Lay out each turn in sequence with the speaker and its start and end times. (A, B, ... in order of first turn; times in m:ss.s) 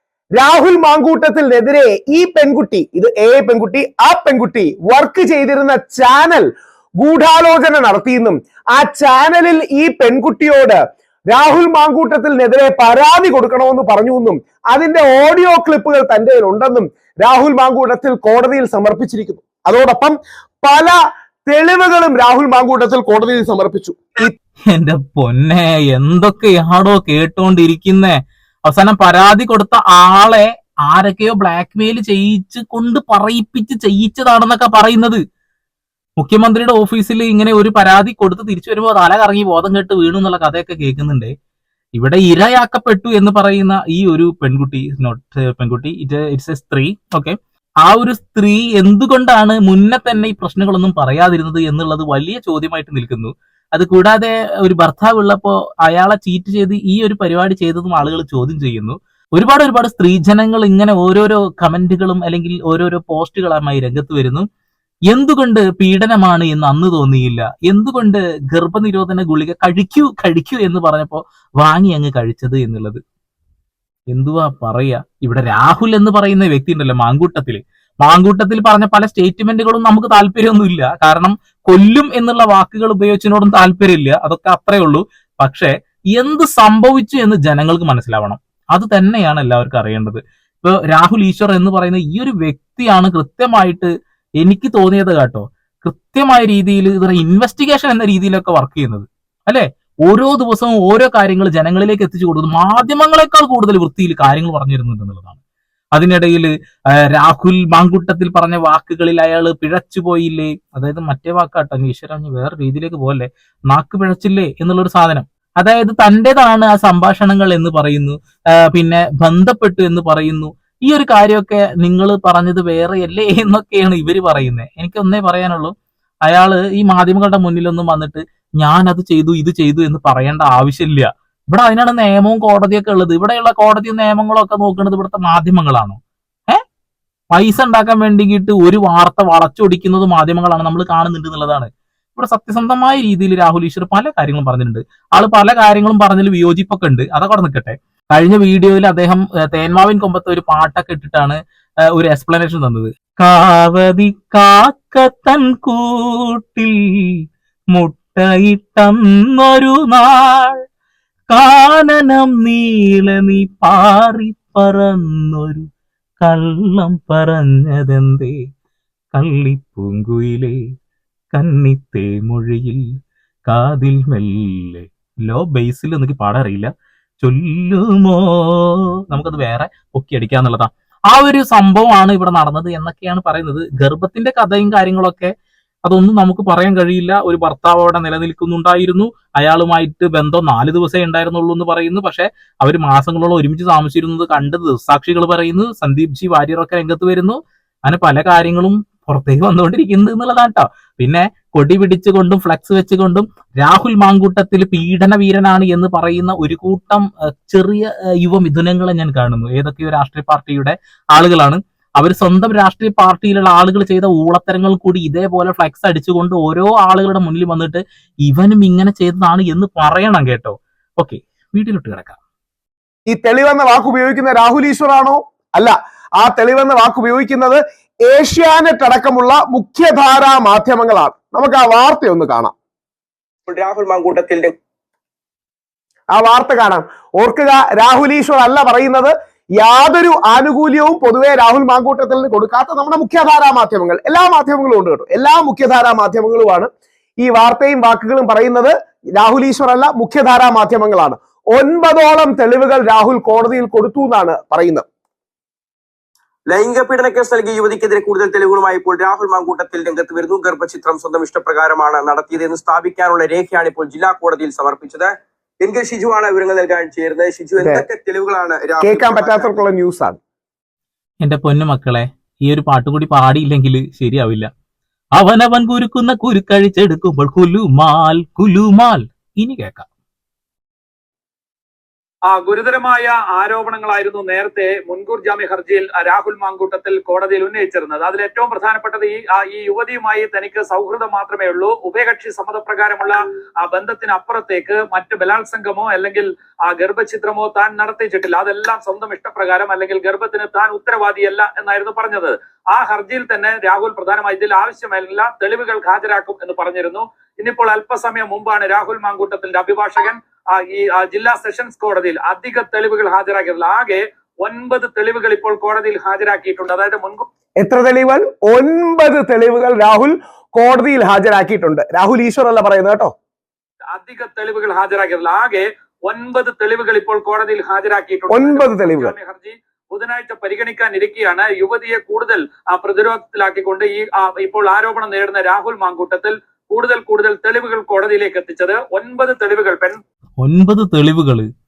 0:00.4-0:06.5 A
0:07.0-0:10.8 A
0:11.3-0:20.9 A
0:21.5-0:24.3 A
0:24.7-0:35.2 B
0:36.2-0:41.3 B
0:42.0-1:04.4 B
1:05.1-1:13.0 B
1:14.1-1:33.9 B
1:34.4-1:45.4 B
1:46.0-1:46.5 B
1:47.1-1:58.2 B
1:58.7-2:05.7 B
2:06.2-2:16.0 B
2:17.3-2:31.4 B
2:31.9-2:37.1 B
2:37.7-2:40.6 B
2:41.3-2:45.6 B
2:46.2-2:48.3 B
2:49.1-2:50.6 B
2:51.3-2:52.8 B
2:53.5-2:56.7 B
2:57.2-3:05.3 B
3:05.9-3:42.2 B
3:43.1-3:52.5 A
3:53.5-3:54.5 C
3:56.1-4:06.7 A
4:07.2-4:14.8 A
4:16.5-4:29.6 C
4:27.6-4:27.8 A
4:28.8-4:30.2 A
4:31.2-4:34.5 B
4:35.2-4:39.8 B
4:42.3-5:17.2 D
5:17.6-5:23.1 A
5:23.9-5:40.0 D
5:28.3-5:29.1 A
5:40.4-5:41.4 B